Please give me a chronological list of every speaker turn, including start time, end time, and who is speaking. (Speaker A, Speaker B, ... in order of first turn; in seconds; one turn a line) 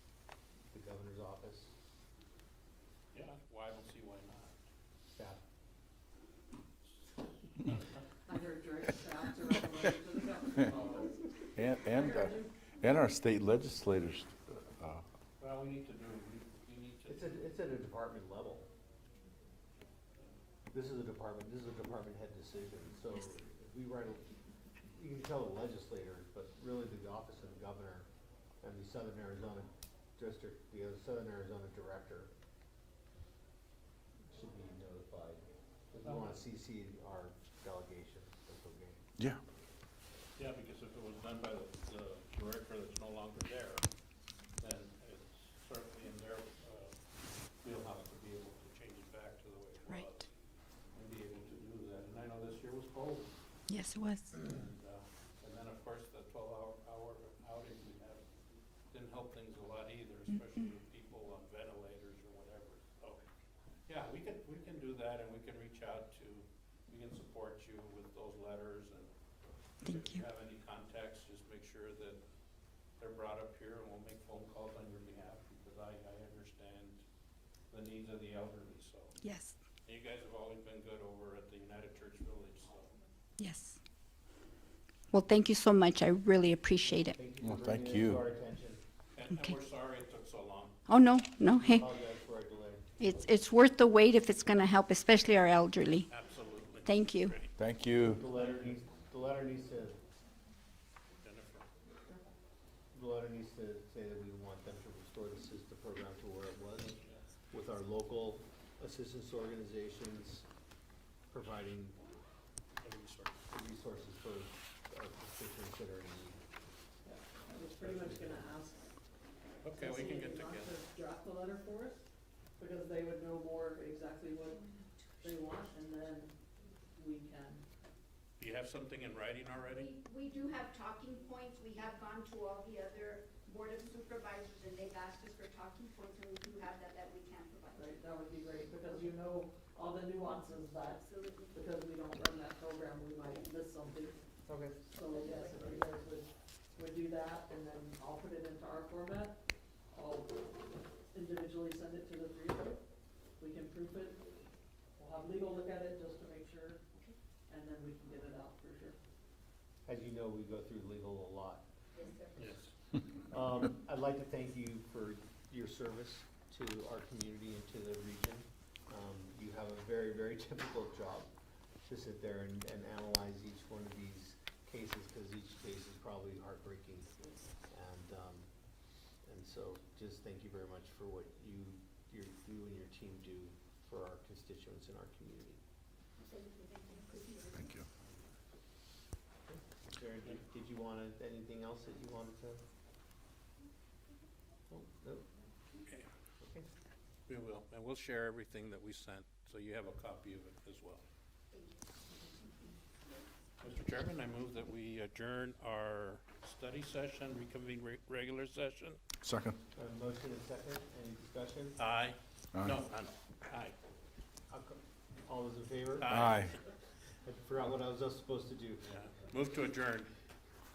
Speaker A: 0.7-1.7
Speaker B: 3.1-4.6
Speaker A: 5.1-5.4
Speaker B: 6.8-7.1
Speaker C: 8.3-12.5
Speaker B: 10.7-11.1
Speaker D: 11.6-15.0
Speaker B: 15.4-17.4
Speaker A: 17.1-18.7
Speaker A: 20.7-24.3
Speaker A: 24.9-28.1
Speaker A: 28.6-32.3
Speaker A: 34.3-39.0
Speaker B: 36.0-36.4
Speaker B: 40.4-43.8
Speaker B: 44.6-47.0
Speaker B: 47.6-50.3
Speaker B: 51.0-53.3
Speaker E: 53.7-54.4
Speaker B: 54.3-58.2
Speaker B: 58.9-63.2
Speaker B: 63.9-69.1
Speaker B: 69.8-72.2
Speaker B: 73.0-77.0
Speaker B: 77.7-79.2
Speaker E: 79.2-79.5
Speaker B: 79.8-82.9
Speaker E: 83.4-83.8
Speaker E: 85.1-87.2
Speaker A: 87.0-88.8
Speaker D: 87.4-88.2
Speaker B: 89.2-90.8
Speaker E: 90.9-91.8
Speaker A: 91.6-93.0
Speaker E: 93.0-96.1
Speaker B: 96.1-97.5
Speaker E: 96.9-97.4
Speaker D: 97.6-98.2
Speaker A: 98.1-100.0
Speaker B: 98.4-98.7
Speaker B: 101.2-101.7
Speaker A: 102.9-107.0
Speaker A: 107.5-110.5
Speaker A: 111.3-112.0
Speaker B: 112.8-113.4
Speaker A: 113.5-116.4
Speaker C: 117.0-119.0
Speaker B: 117.8-118.4
Speaker B: 119.6-120.8
Speaker C: 119.7-122.0
Speaker C: 122.6-124.7
Speaker F: 124.6-125.6
Speaker C: 125.2-126.3
Speaker C: 126.9-127.6
Speaker B: 128.4-129.9
Speaker F: 129.7-138.0
Speaker C: 137.8-144.2
Speaker F: 140.9-141.6
Speaker C: 144.9-149.4
Speaker F: 145.1-145.8
Speaker C: 149.9-150.4
Speaker C: 151.1-152.8
Speaker C: 153.4-154.2
Speaker C: 155.0-156.8
Speaker C: 157.5-159.0
Speaker A: 159.9-161.7
Speaker F: 161.9-162.5
Speaker B: 162.4-162.7
Speaker A: 163.3-171.3
Speaker A: 171.9-177.2
Speaker A: 177.7-178.5
Speaker A: 179.2-185.6
Speaker F: 186.2-187.8
Speaker D: 187.6-187.8
Speaker A: 189.5-192.6
Speaker A: 194.7-195.3
Speaker A: 196.4-196.7
Speaker B: 197.3-201.0
Speaker F: 201.5-201.8
Speaker B: 203.6-209.0
Speaker D: 209.2-209.6
Speaker A: 209.8-211.8
Speaker B: 211.8-213.8
Speaker D: 212.6-212.8
Speaker A: 214.5-216.2
Speaker B: 216.0-216.6
Speaker D: 216.1-216.6
Speaker A: 217.2-218.9
Speaker B: 218.8-220.1